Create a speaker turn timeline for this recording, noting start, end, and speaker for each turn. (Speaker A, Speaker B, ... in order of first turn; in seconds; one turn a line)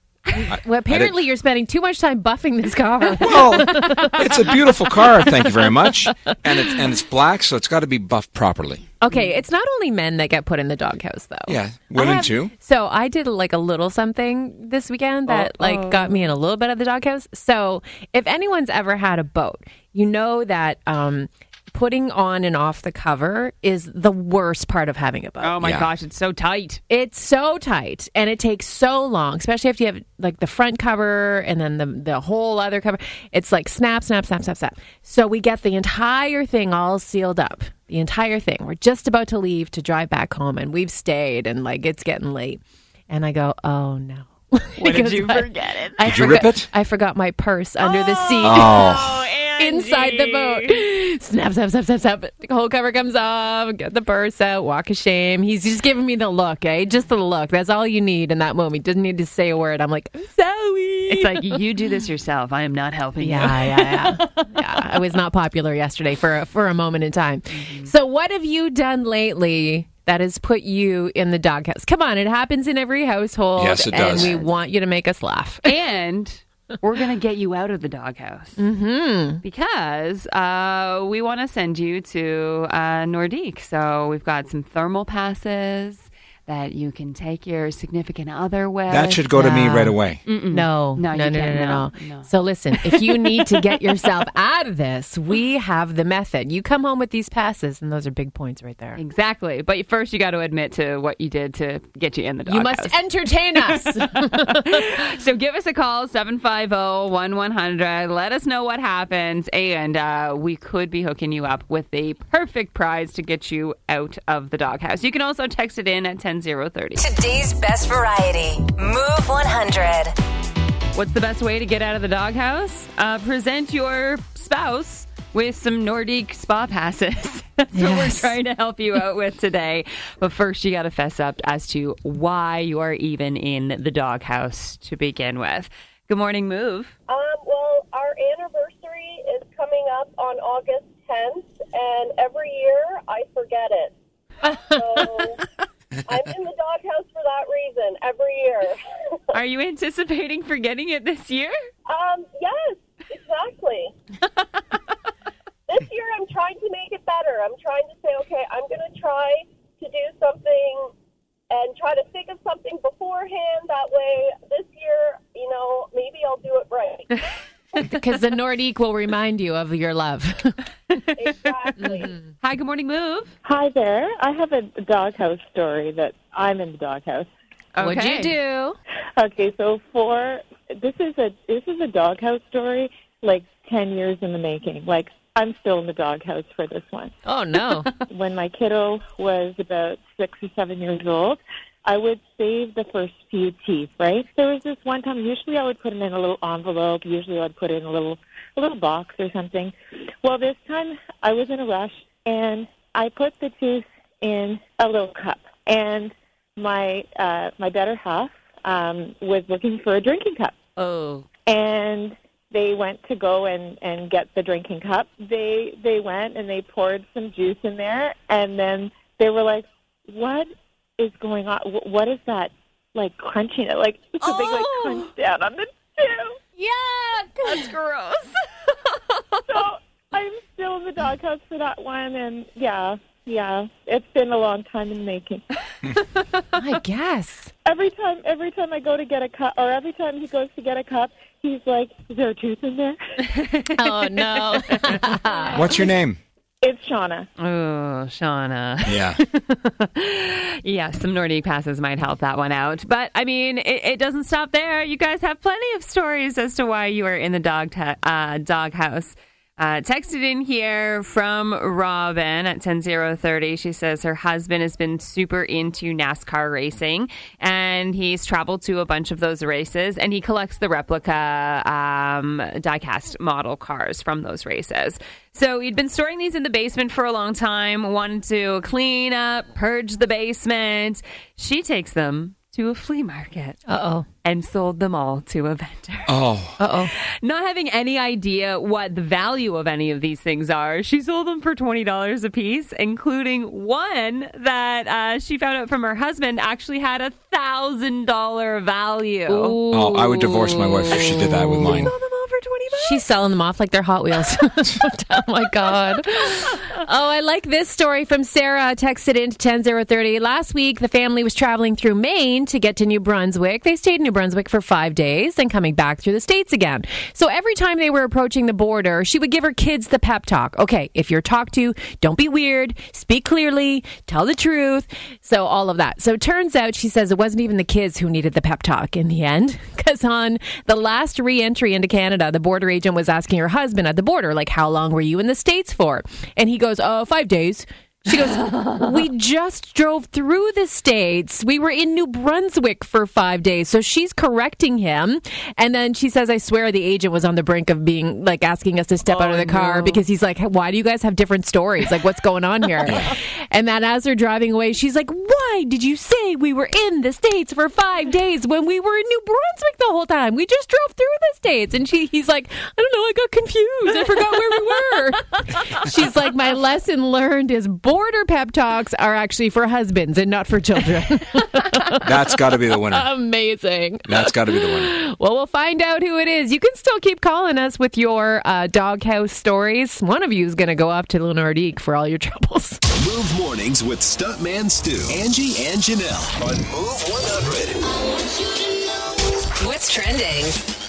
Speaker A: 0.3-4.6
Speaker B: 0.5-1.2
Speaker B: 3.2-8.9
Speaker A: 9.0-25.6
Speaker B: 11.5-12.5
Speaker C: 15.3-16.3
Speaker C: 25.4-26.8
Speaker B: 25.6-25.9
Speaker A: 26.9-48.9
Speaker C: 44.8-46.0
Speaker B: 46.0-46.7
Speaker C: 47.8-50.8
Speaker B: 48.4-49.2
Speaker A: 49.6-61.6
Speaker C: 61.1-64.5
Speaker A: 63.2-75.7
Speaker C: 67.5-67.9
Speaker B: 73.5-74.3
Speaker C: 74.2-74.5
Speaker C: 75.6-78.6
Speaker A: 78.6-79.4
Speaker C: 79.4-89.2
Speaker B: 88.9-90.2
Speaker A: 89.3-99.0
Speaker C: 90.2-93.2
Speaker C: 99.0-102.9
Speaker A: 102.5-104.9
Speaker C: 103.6-117.0
Speaker D: 117.0-120.2
Speaker C: 120.9-136.9
Speaker A: 127.8-128.3
Speaker E: 137.1-143.9
Speaker E: 144.7-145.4
Speaker E: 146.1-149.2
Speaker C: 149.3-151.6
Speaker E: 151.9-153.9
Speaker E: 155.7-160.9
Speaker E: 161.5-167.2
Speaker A: 167.8-170.6
Speaker C: 170.9-173.3
Speaker E: 171.2-172.1
Speaker F: 173.4-177.3
Speaker C: 177.8-178.3
Speaker A: 177.8-178.8
Speaker F: 179.2-187.1
Speaker A: 187.2-187.9
Speaker C: 187.6-188.0
Speaker F: 188.1-210.6
Speaker C: 210.8-211.2
Speaker F: 211.5-226.4
Speaker C: 224.2-225.1
Speaker C: 226.6-229.4
Speaker F: 229.5-235.4
Speaker A: 236.5-237.5
Speaker F: 237.7-243.0
Speaker C: 243.2-245.3
Speaker A: 243.8-245.7
Speaker B: 245.5-246.2
Speaker F: 246.6-247.3
Speaker C: 247.4-283.6
Speaker B: 248.8-249.2
Speaker A: 283.7-284.1
Speaker C: 284.2-286.1
Speaker B: 286.1-286.6
Speaker A: 286.6-286.9
Speaker C: 286.9-299.6
Speaker A: 299.3-302.0
Speaker B: 299.7-301.9
Speaker C: 301.7-303.0
Speaker A: 302.7-382.8
Speaker C: 349.1-350.0
Speaker B: 352.9-353.1
Speaker B: 372.0-373.1
Speaker B: 374.1-374.9
Speaker G: 382.9-387.8
Speaker D: 389.6-390.6